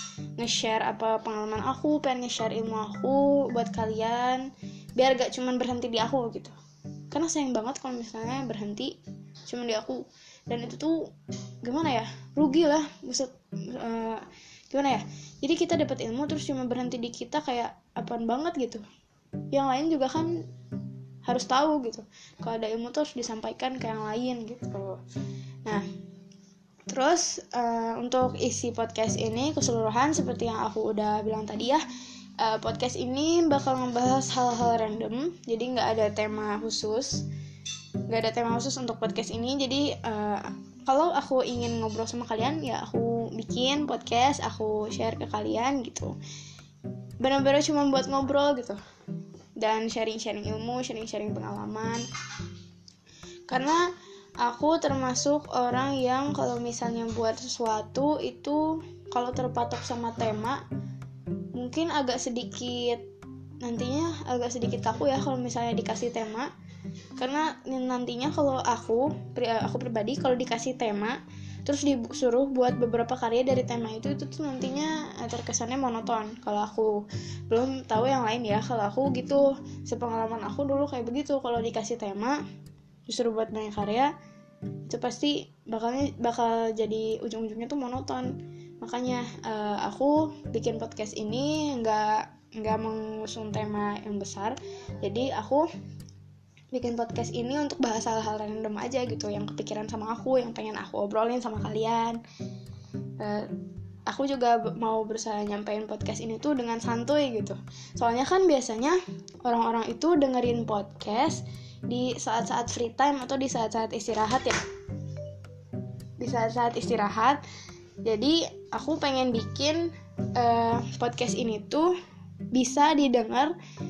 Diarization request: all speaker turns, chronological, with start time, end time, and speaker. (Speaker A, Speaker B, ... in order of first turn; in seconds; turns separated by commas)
Speaker A: 0.4-6.5, Speaker A: 7.1-8.9, Speaker A: 9.4-11.0, Speaker A: 11.6-18.8, Speaker A: 19.5-20.3, Speaker A: 21.2-25.0, Speaker A: 26.9-31.8, Speaker A: 32.4-37.2, Speaker A: 38.1-46.1, Speaker A: 47.2-48.8, Speaker A: 49.6-52.0, Speaker A: 53.5-53.9, Speaker A: 54.4-60.6, Speaker A: 61.5-63.1, Speaker A: 63.6-66.5, Speaker A: 67.2-82.4, Speaker A: 83.1-84.1, Speaker A: 84.8-95.7, Speaker A: 96.7-102.2, Speaker A: 103.2-103.5, Speaker A: 104.1-114.6, Speaker A: 116.2-117.4, Speaker A: 118.0-121.9, Speaker A: 122.5-123.5